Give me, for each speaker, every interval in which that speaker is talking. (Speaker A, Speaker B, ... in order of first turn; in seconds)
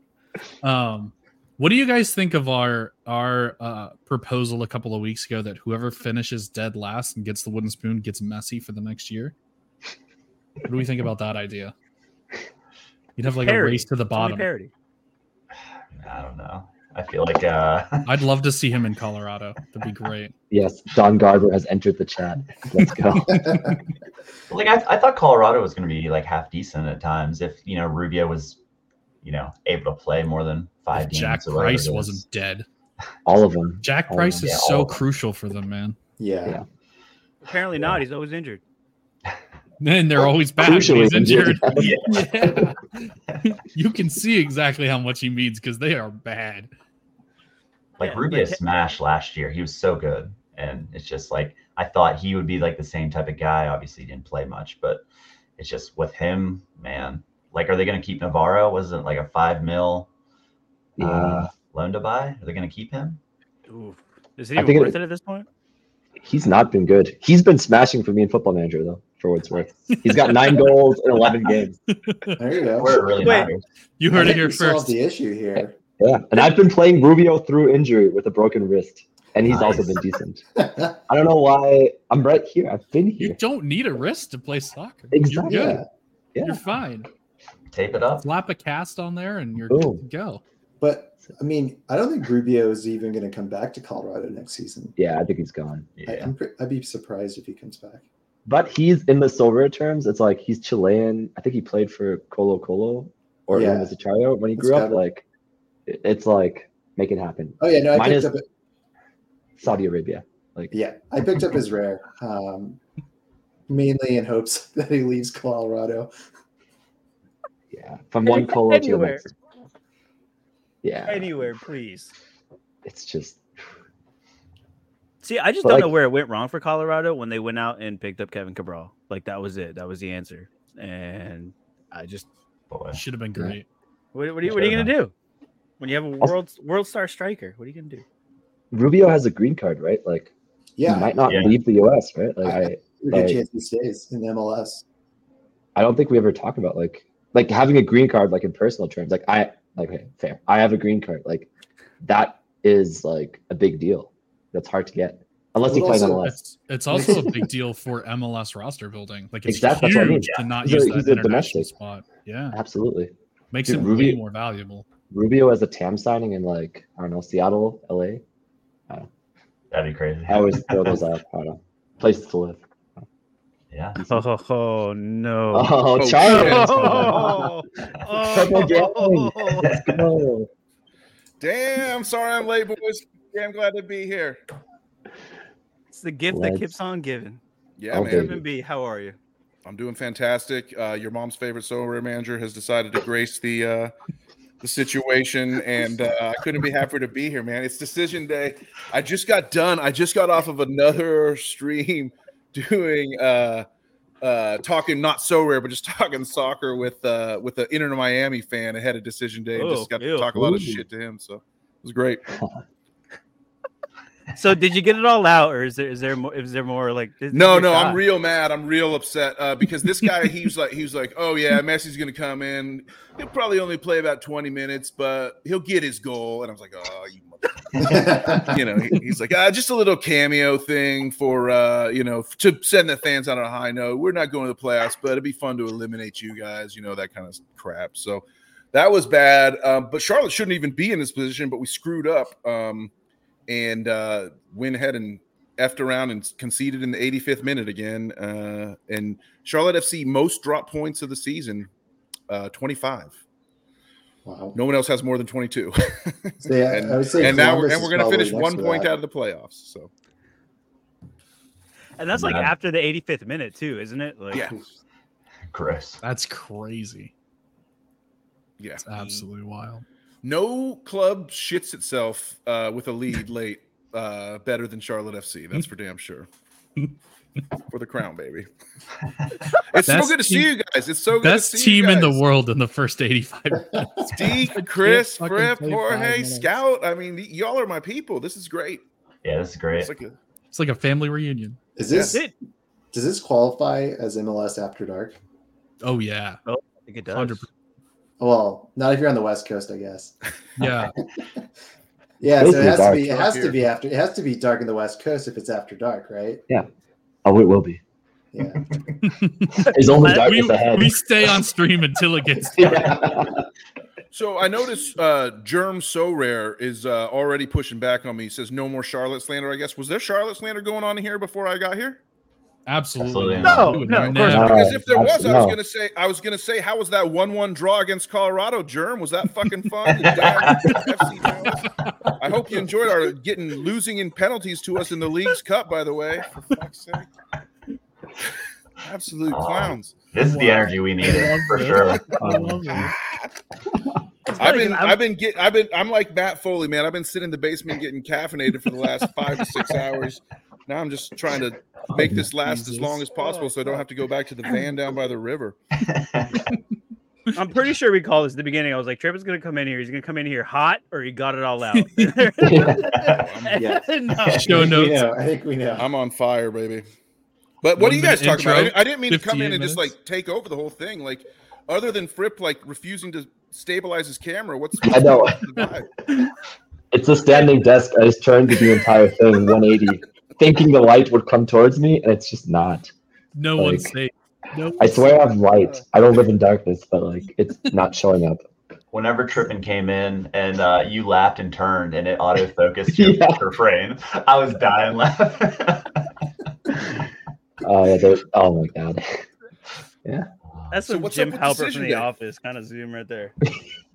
Speaker A: 0.6-9.3, 10.6-11.7, 13.2-14.5, 18.1-20.3, 30.9-32.6, 33.8-36.0, 39.8-46.7, 69.9-70.7, 71.9-72.4, 74.0-75.0, 83.2-85.8, 86.4-87.1, 88.2-90.4, 132.9-133.7, 156.2-162.6, 163.5-164.9, 266.0-267.1, 268.8-269.9, 279.9-280.5, 281.1-286.6, 290.5-291.6, 295.8-296.4, 297.1-297.5, 300.6-300.9, 309.0-312.9, 322.6-324.9, 340.2-342.9, 352.4-353.0, 361.7-362.6, 364.3-365.1, 367.8-369.9, 383.4-385.4
Speaker B: 13.3-14.7, 37.4-38.6, 48.0-48.6, 63.7-65.5, 73.2-73.5, 118.2-119.2, 121.1-122.1, 125.2-132.3, 134.1-135.1, 135.8-138.0, 174.1-179.7, 185.9-187.4, 188.0-189.2, 209.6-210.3, 214.3-218.0, 262.0-264.5, 268.9-269.2, 296.4-297.4, 310.0-310.4, 323.4-324.5, 344.3-345.0, 353.1-353.8, 357.4-364.6, 400.7-403.3
Speaker C: 15.9-18.1, 24.5-28.6, 29.2-32.2, 34.5-34.9, 41.8-42.2, 48.0-55.0, 55.6-60.1, 61.0-63.2, 72.8-73.6, 79.5-80.0, 87.7-88.3, 96.0-96.3, 132.7-133.0, 141.3-141.5, 160.1-160.4, 169.7-171.0, 173.7-174.0, 179.6-180.0, 262.1-262.5, 265.5-266.0, 289.2-289.9, 323.0-323.8, 330.0-330.9, 339.3-342.6, 355.9-356.3, 388.9-396.0
Speaker D: 20.5-23.7, 33.3-34.9, 40.6-42.6, 61.0-61.5, 64.6-65.0, 66.2-71.8, 76.0-80.4, 81.1-83.4, 85.1-85.8, 86.3-86.6, 89.7-90.0, 95.0-95.9, 98.5-105.2, 105.9-108.3, 109.6-110.7, 117.7-119.3, 120.8-121.5, 122.8-123.4, 125.6-125.9, 134.5-134.9, 138.7-140.3, 140.8-143.4, 145.8-151.5, 152.0-156.4, 159.5-161.7, 162.5-163.1, 163.7-164.2, 165.1-168.2, 170.3-173.0, 173.9-174.2, 175.5-177.5, 178.1-180.5, 186.3-186.8, 187.9-188.4, 210.3-210.8, 212.3-212.6, 302.4-303.2, 307.2-307.8, 309.6-311.1, 312.6-313.4, 324.3-325.6, 342.2-342.7, 362.4-362.9, 374.8-375.4, 376.9-382.9, 383.6-383.9, 384.8-388.4, 392.9-393.4, 397.6-399.2
Speaker E: 36.2-36.6, 72.4-73.1, 74.1-75.8, 80.6-81.0, 85.5-85.9, 90.8-94.9, 96.1-98.0, 103.5-103.9, 104.6-105.0, 107.6-108.4, 110.7-112.8, 113.7-116.1, 140.8-141.2, 142.4-144.8, 155.7-156.2, 156.9-157.5, 227.8-228.6, 254.2-254.6, 256.4-258.9, 283.8-284.1, 291.8-292.2, 292.9-295.2, 298.2-300.1, 302.2-306.4, 308.3-308.8, 364.5-365.9
Speaker F: 176.0-177.1, 181.4-184.4, 187.8-188.4, 189.6-193.9, 194.6-203.7, 204.2-212.2, 217.3-242.9, 243.5-251.7, 252.3-253.2, 254.6-259.9, 264.3-264.6, 268.6-268.9, 270.2-276.3, 277.7-278.5, 279.7-282.2, 284.1-288.8, 289.8-290.1, 291.9-292.2, 303.1-303.6, 314.1-322.0, 323.8-331.6, 332.2-337.1, 338.8-339.9, 342.7-343.4, 344.4-355.6, 363.1-363.7, 365.8-366.9, 367.6-375.9, 400.8-402.1